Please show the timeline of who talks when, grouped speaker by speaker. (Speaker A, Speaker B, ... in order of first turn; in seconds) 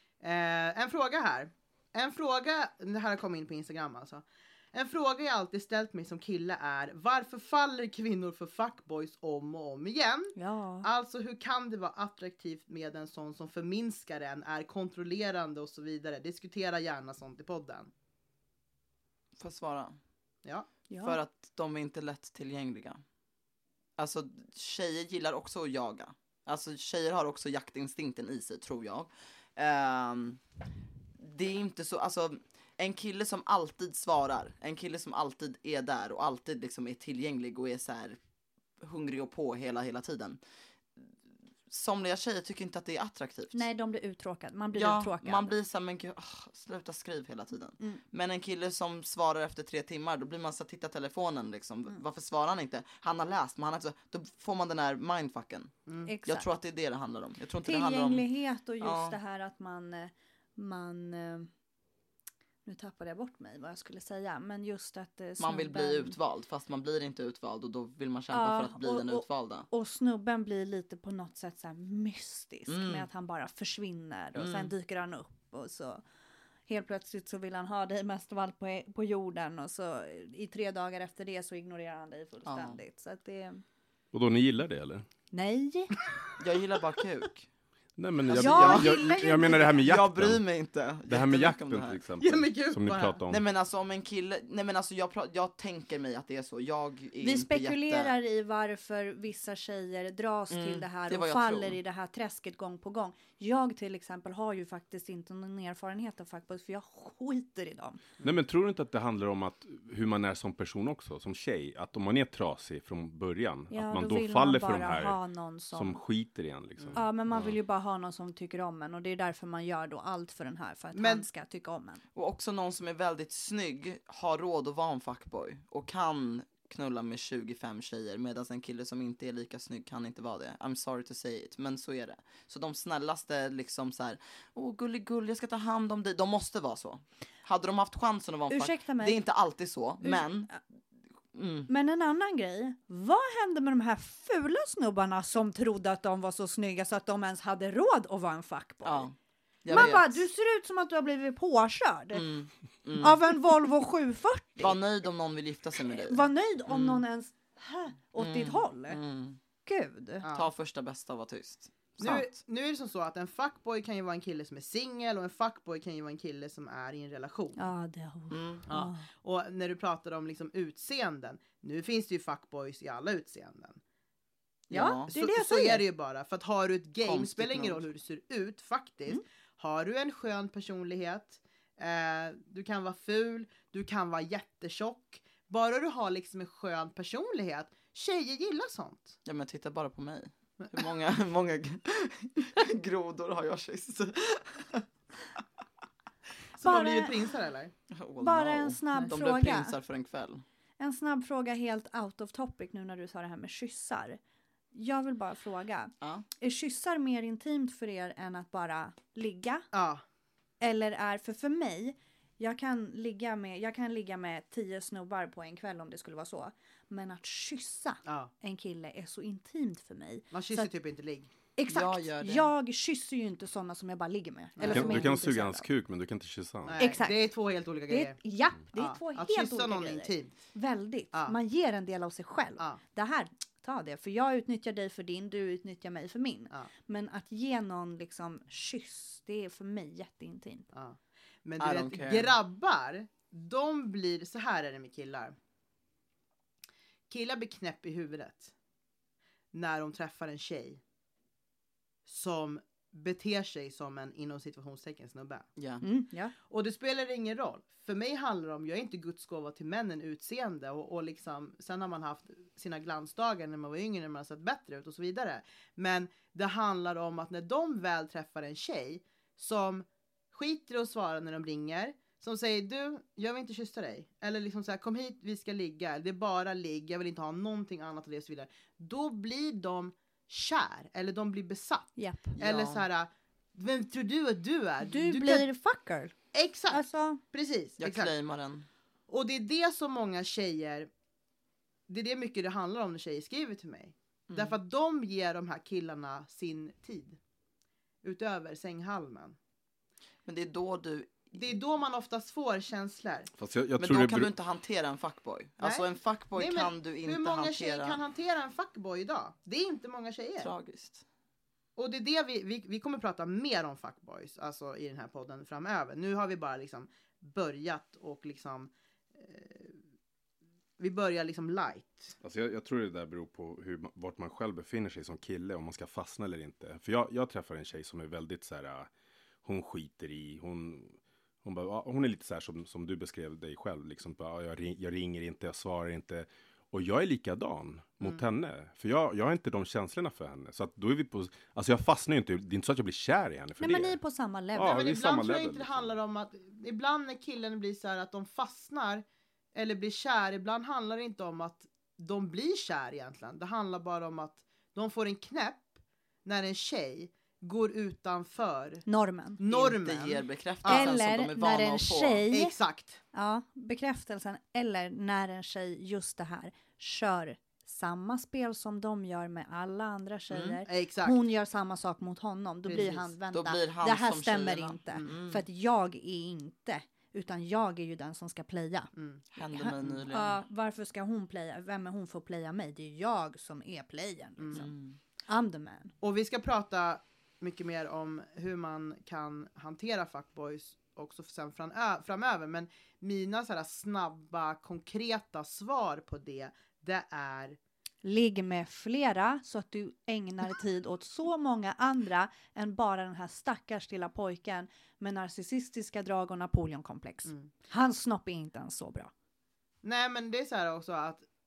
Speaker A: 0.2-17.9, 55.9-56.1, 92.2-93.2, 120.9-121.3, 160.2-160.5, 162.0-167.6, 168.7-173.8, 175.1-189.2, 196.6-197.7, 209.7-210.0, 218.1-218.3, 220.3-221.3, 224.6-225.1, 226.7-228.2, 228.7-230.3, 240.7-245.4, 247.1-248.5, 249.5-250.8, 252.1-255.5, 256.5-285.5, 286.3-288.1, 289.1-290.9, 291.9-297.2, 298.0-299.4, 301.3-303.3, 306.4-310.5, 311.8-319.8, 320.8-322.1, 344.6-355.7, 356.2-358.9, 359.4-361.0, 362.3-363.0, 370.7-371.2, 372.7-373.1, 378.9-379.2, 384.4-384.7, 386.0-397.6, 407.3-407.5, 409.8-411.3
Speaker B: 10.3-10.9, 20.9-21.2, 43.5-45.5, 56.0-56.5, 57.6-61.5, 62.6-66.2, 68.3-76.0, 76.7-83.6, 85.3-85.9, 88.3-89.8, 97.2-108.0, 113.7-116.0, 116.9-122.0, 138.5-139.2, 140.0-140.6, 141.7-149.1, 149.7-152.3, 153.0-154.8, 156.0-159.0, 159.7-160.3, 167.6-169.1, 174.7-175.8, 196.6-197.1, 198.2-199.8, 200.8-204.2, 204.7-209.7, 210.6-220.7, 221.6-225.7, 226.8-227.3, 227.9-240.7, 255.8-256.4, 282.0-282.4, 284.8-287.2, 343.6-344.8, 358.9-359.4, 360.7-362.6, 363.1-384.7, 385.3-385.9, 398.0-409.1
Speaker C: 19.4-20.0, 21.0-23.0, 24.0-30.4, 31.2-38.2, 38.8-40.4, 41.7-43.6, 44.7-55.7, 56.3-58.3, 58.8-59.2, 65.4-69.7, 72.7-73.1, 74.4-74.7, 82.5-82.8, 86.4-87.5, 88.3-92.0, 93.3-98.1, 100.5-101.8, 122.2-140.5, 141.3-141.7, 148.8-150.3, 152.1-153.2, 154.6-157.0, 158.2-159.4, 160.3-162.3, 168.3-168.7, 174.7-175.1, 177.0-177.8, 189.2-194.8, 197.9-200.4, 206.0-206.3, 221.7-222.5, 241.6-242.3, 255.6-255.8, 282.4-282.9, 287.8-288.7, 294.3-294.6, 300.3-301.3, 303.8-308.0, 310.4-311.0, 359.5-362.3, 370.3-370.6, 373.3-375.4, 379.3-380.4, 384.5-385.0
Speaker D: 84.1-85.1, 88.0-90.4, 91.1-93.4, 108.2-115.2, 115.7-117.6, 224.6-226.9, 303.4-304.3, 322.2-328.9, 329.4-344.0, 344.5-346.0